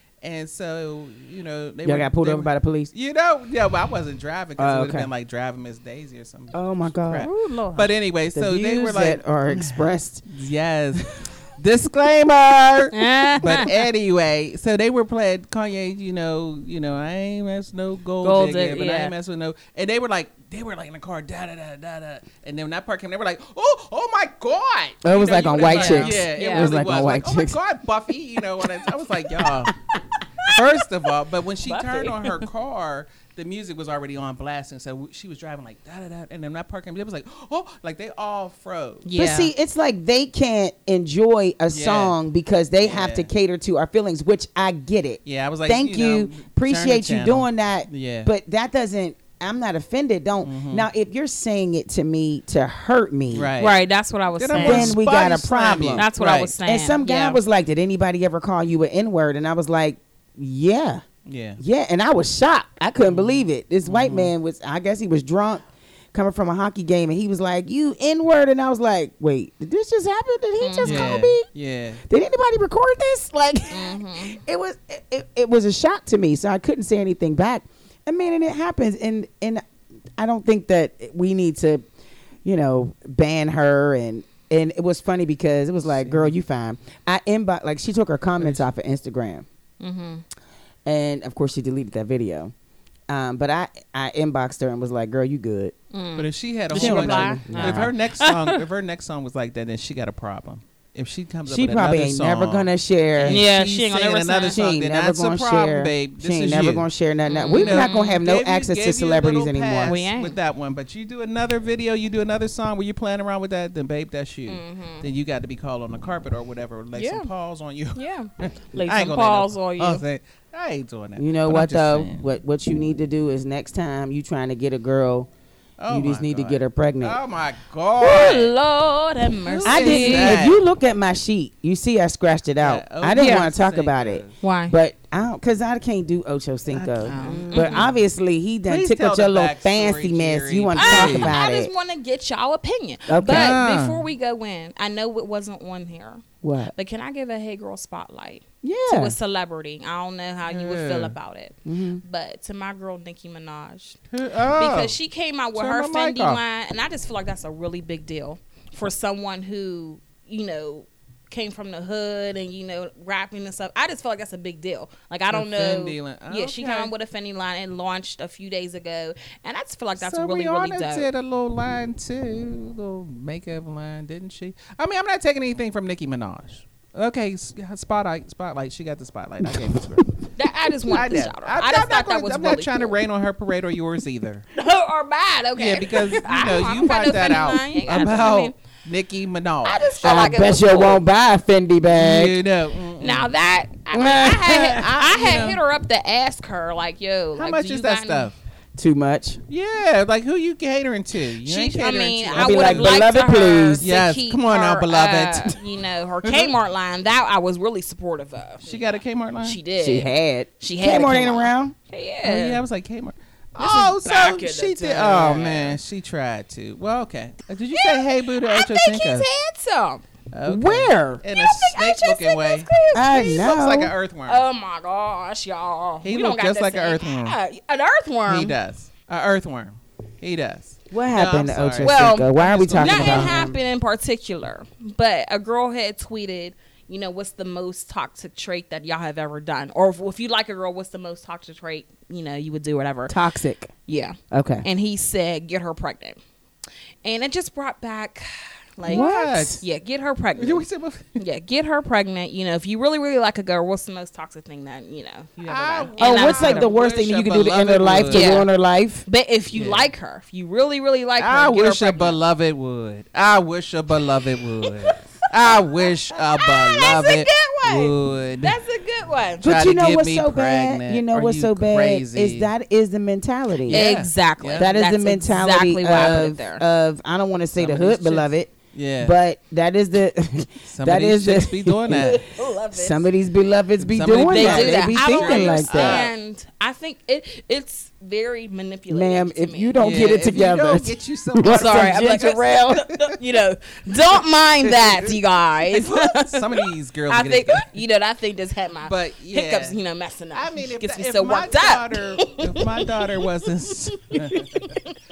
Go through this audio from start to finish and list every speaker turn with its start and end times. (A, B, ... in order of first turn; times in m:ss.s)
0:00.2-0:29.7 A
0:01.8-0:02.9 B
0:04.6-0:05.1 B
0:06.5-0:07.3 B
0:07.2-0:07.9 C
0:08.3-0:10.2 B
0:12.9-0:13.7 C
0:18.2-0:19.1 C
0:25.0-0:27.6 B
0:25.6-0:26.8 C
0:29.3-0:30.5 B
0:30.5-0:39.1 A
0:31.6-0:32.4 C
0:39.0-0:39.5 C
0:39.1-0:53.5 B
0:41.7-0:42.2 A
0:42.8-0:43.3 A
0:45.2-0:48.3 A
0:50.4-0:50.9 A
0:53.3-0:53.8 A
0:53.6-0:55.0 C
0:54.4-0:56.5 A
0:54.5-0:56.1 B
0:56.0-0:57.4 C
0:56.6-1:01.0 B
1:01.2-1:01.6 A
1:01.6-1:11.5 B
1:03.0-1:04.3 A
1:10.6-1:11.2 C
1:10.8-1:12.0 A
1:12.1-1:19.6 B
1:13.7-1:14.4 C
1:20.2-1:21.8 B
1:22.4-1:29.4 B
1:25.9-1:26.3 A
1:28.4-1:28.6 A
1:29.8-1:30.2 C
1:30.8-1:32.5 B
1:33.1-1:35.7 B
1:35.9-1:38.6 C
1:36.2-1:46.9 A
1:36.7-1:37.9 B
1:41.5-1:43.4 B
1:43.2-1:44.6 C
1:44.5-1:50.0 B
1:47.3-1:48.2 C
1:47.5-2:02.2 A
1:49.8-1:50.4 C
1:54.5-1:55.0 C
1:56.9-1:57.3 C
1:57.9-2:00.0 C
2:01.2-2:05.3 B
2:05.8-2:08.5 A
2:05.9-2:07.2 B
2:08.0-2:10.4 C
2:09.4-2:10.6 A
2:09.6-2:21.7 B
2:12.6-2:14.4 A
2:13.1-2:13.5 C
2:14.4-2:14.7 C
2:16.7-2:17.9 A
2:17.0-2:17.9 C
2:18.7-2:21.4 A
2:20.8-2:34.0 C
2:23.1-2:23.6 B
2:23.2-2:24.0 A
2:26.4-2:26.7 B
2:28.6-2:29.1 B
2:30.5-2:31.1 A
2:31.6-2:32.0 B
2:34.1-2:34.9 A
2:34.5-2:51.1 C
2:35.5-2:36.4 A
2:45.3-2:46.9 A
2:50.0-3:00.1 A
2:59.5-2:59.8 B
3:00.4-3:03.0 C
3:00.9-3:04.4 A
3:04.5-3:08.5 C
3:05.6-3:10.3 A
3:09.6-3:11.0 C
3:10.0-3:12.4 B
3:11.9-3:13.3 A
3:13.0-3:18.3 C
3:13.9-3:14.8 B
3:14.4-3:15.6 A
3:17.4-3:18.4 A
3:18.8-3:19.4 B
3:19.5-3:23.0 A
3:21.4-3:32.6 C
3:22.3-3:23.8 B
3:23.8-3:25.6 A
3:26.2-3:26.5 A
3:28.6-3:29.6 A
3:29.8-3:31.7 B
3:32.2-3:39.3 A
3:33.6-3:35.8 C
3:37.7-3:40.0 C
3:40.3-3:44.4 A
3:40.4-3:41.2 B
3:41.3-3:43.5 C
3:42.9-3:43.9 B
3:44.3-3:48.5 C
3:46.0-3:47.4 A
3:48.3-3:53.5 A
3:50.9-3:53.6 B
3:51.8-4:03.2 C
4:03.1-4:03.7 B
4:03.9-4:06.2 C
4:04.3-4:04.6 B
4:07.0-4:10.6 C
4:08.8-4:09.6 A
4:08.9-4:09.6 B
4:10.4-4:11.2 A
4:11.2-4:16.7 C
4:15.4-4:18.4 A
4:16.0-4:19.0 B
4:18.1-4:18.5 C
4:19.1-4:22.1 C
4:19.5-4:19.9 A
4:21.2-4:28.6 A
4:24.6-4:29.5 C
4:29.4-4:32.5 A
4:29.4-4:33.9 B
4:33.7-4:34.7 A
4:33.7-4:36.6 C
4:34.6-4:42.2 B
4:37.6-4:39.1 A
4:40.6-4:42.2 A
4:42.0-4:43.1 C
4:42.7-4:46.1 B
4:43.8-4:46.1 A
4:44.3-4:50.0 C
4:48.9-4:52.9 B
4:49.8-4:52.4 A
4:51.4-5:05.0 C
4:54.6-4:55.1 A
4:55.7-4:57.7 A
4:58.8-4:59.8 A
5:00.3-5:04.8 A